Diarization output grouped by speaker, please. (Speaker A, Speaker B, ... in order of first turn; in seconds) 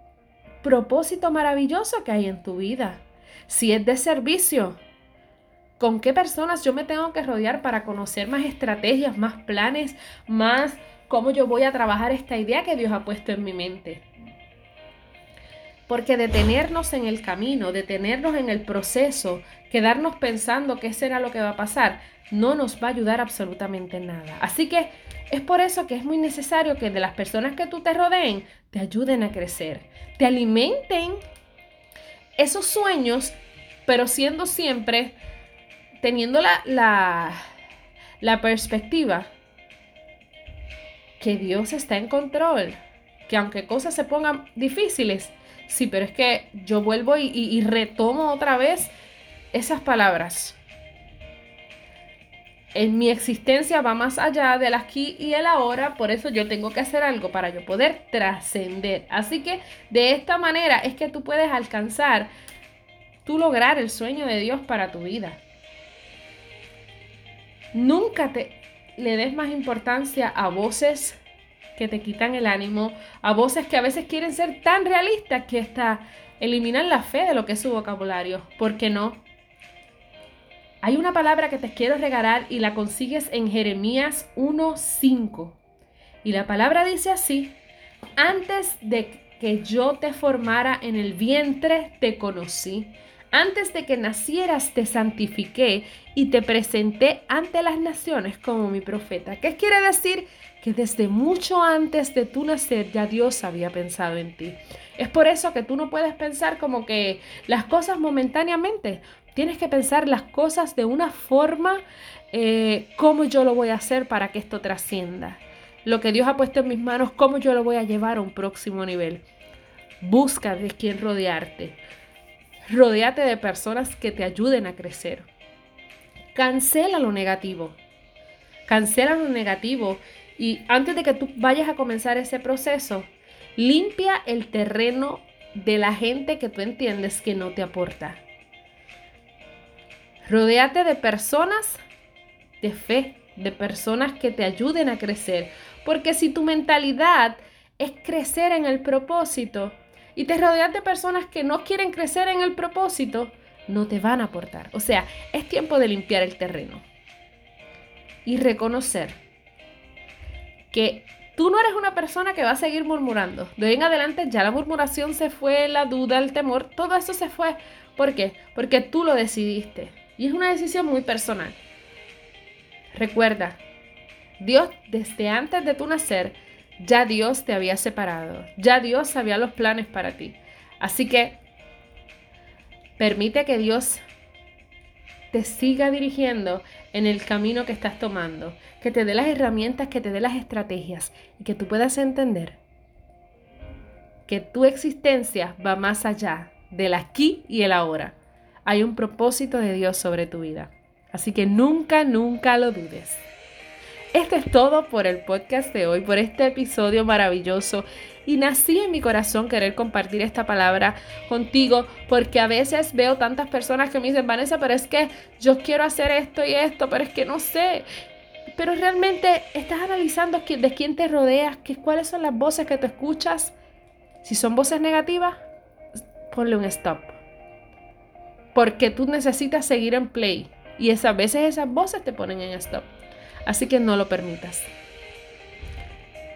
Speaker A: 0.6-4.8, 5.8-14.1, 15.9-31.2, 32.4-35.2, 36.0-37.4, 38.2-39.3, 41.2-48.9, 49.5-50.6, 52.7-62.3, 63.2-65.4, 67.7-71.2, 71.8-79.2, 80.8-85.6, 86.2-87.6, 88.2-119.2, 120.0-121.8, 122.7-125.3, 126.3-127.8, 128.7-138.2, 140.2-141.8, 142.6-156.9, 158.2-159.2, 160.7-171.6, 172.9-173.6, 174.4-181.4, 183.0-184.0, 185.3-192.6, 194.3-203.2, 204.1-217.9, 218.6-223.5, 224.2-225.4, 226.3-227.2, 228.5-232.9, 233.5-234.7